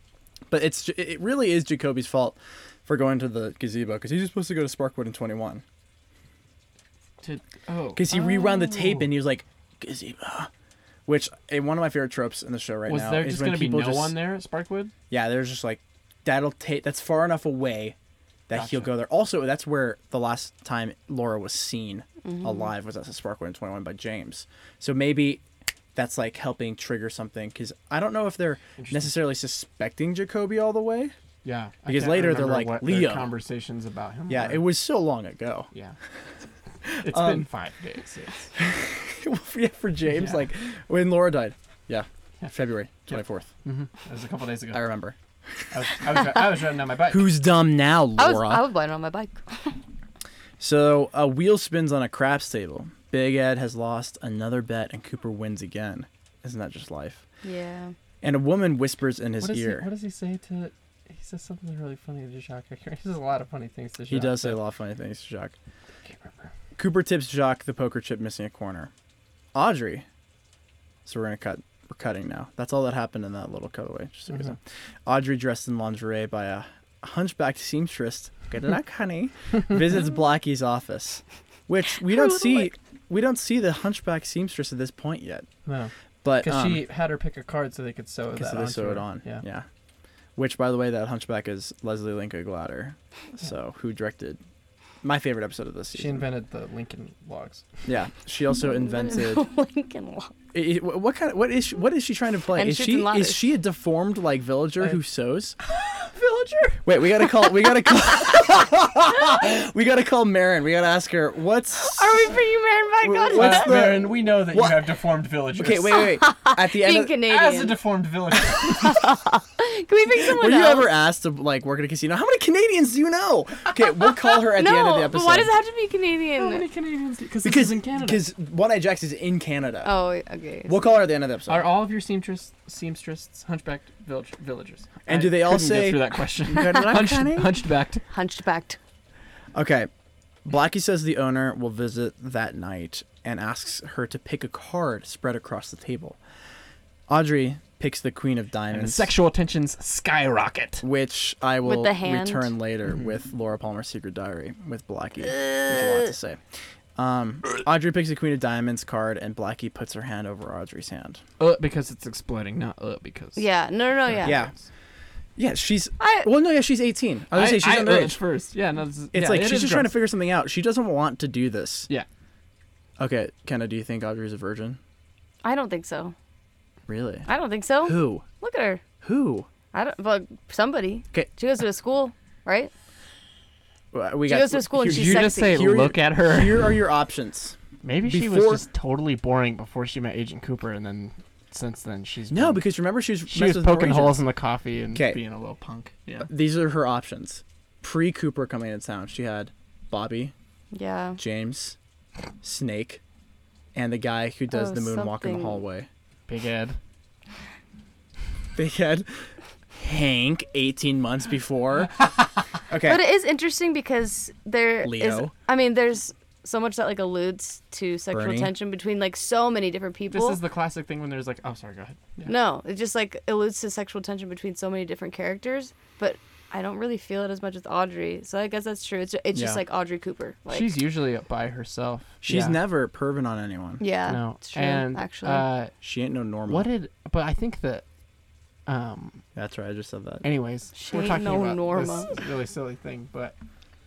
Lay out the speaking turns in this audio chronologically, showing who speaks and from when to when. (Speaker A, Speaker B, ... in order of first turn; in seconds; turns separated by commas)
Speaker A: 0.5-5.6, Speaker B: 7.2-9.1, Speaker A: 8.0-10.5, Speaker A: 11.1-14.2, Speaker B: 12.9-14.9, Speaker A: 15.1-18.0, Speaker A: 18.5-25.4, Speaker B: 18.5-18.9, Speaker A: 25.9-31.1, Speaker B: 28.8-29.1, Speaker B: 31.4-34.6, Speaker A: 31.9-33.3, Speaker A: 34.3-35.7, Speaker A: 36.9-37.5, Speaker B: 36.9-38.5, Speaker A: 38.6-43.5, Speaker B: 40.1-40.4, Speaker B: 43.1-44.9, Speaker A: 44.7-45.2, Speaker B: 45.7-47.3, Speaker A: 47.1-48.6, Speaker C: 48.2-49.7, Speaker A: 50.6-57.2, Speaker C: 57.4-57.9, Speaker A: 58.2-59.9, Speaker B: 59.4-64.6, Speaker A: 64.1-65.6, Speaker B: 66.1-66.5, Speaker A: 66.8-68.9, Speaker A: 69.5-70.0, Speaker A: 71.1-85.5, Speaker C: 82.0-82.7, Speaker B: 85.7-89.4, Speaker A: 86.2-86.8, Speaker A: 88.3-89.7, Speaker A: 90.4-94.4, Speaker A: 95.0-96.2, Speaker B: 95.9-97.7, Speaker A: 97.9-99.4, Speaker C: 98.6-100.3, Speaker A: 100.5-105.6, Speaker C: 102.5-103.5, Speaker B: 105.6-106.9, Speaker A: 106.8-112.3, Speaker C: 111.8-113.8, Speaker A: 113.0-114.9, Speaker B: 113.3-116.1, Speaker A: 115.6-117.2, Speaker C: 115.9-117.8, Speaker B: 117.3-119.0, Speaker C: 118.7-120.9, Speaker A: 120.2-125.5, Speaker C: 124.2-126.6, Speaker B: 126.4-128.2, Speaker A: 127.4-129.9, Speaker C: 129.8-131.0, Speaker A: 130.7-131.7, Speaker B: 131.5-138.0, Speaker A: 135.1-137.5, Speaker C: 138.1-138.8, Speaker A: 139.6-139.9, Speaker A: 140.4-146.2, Speaker A: 147.1-149.1, Speaker B: 148.7-150.8, Speaker A: 150.8-156.4, Speaker C: 151.6-152.5, Speaker C: 155.2-156.1, Speaker A: 157.0-161.2, Speaker B: 161.4-163.4, Speaker C: 163.4-164.4, Speaker B: 164.1-164.6, Speaker A: 164.2-164.5, Speaker A: 165.4-168.2, Speaker C: 166.0-166.3, Speaker B: 167.3-169.9, Speaker A: 169.1-171.9, Speaker A: 173.0-174.8, Speaker C: 175.4-176.2, Speaker A: 176.9-177.3, Speaker C: 177.3-178.8, Speaker A: 177.8-178.2, Speaker A: 179.0-179.5, Speaker C: 179.7-182.7, Speaker A: 183.9-188.7, Speaker C: 184.3-185.6, Speaker B: 184.7-186.8, Speaker B: 187.8-192.6, Speaker A: 192.3-194.2, Speaker B: 193.3-196.3, Speaker A: 194.9-195.2, Speaker A: 196.3-200.3, Speaker C: 200.7-201.2, Speaker A: 201.2-201.8, Speaker A: 202.4-203.0, Speaker A: 203.8-205.9, Speaker C: 204.5-205.6, Speaker B: 206.3-206.8, Speaker A: 208.6-211.9, Speaker A: 212.7-213.1, Speaker C: 212.8-220.4, Speaker A: 214.8-215.3, Speaker A: 218.1-218.5, Speaker B: 220.1-222.3, Speaker C: 222.3-230.7, Speaker A: 229.3-229.6, Speaker B: 230.5-232.6, Speaker A: 232.2-233.8, Speaker C: 233.8-235.5, Speaker B: 234.1-235.7, Speaker A: 235.8-236.7, Speaker B: 236.5-237.8, Speaker B: 238.7-239.2, Speaker A: 239.3-240.2, Speaker B: 240.2-243.3, Speaker C: 240.8-242.1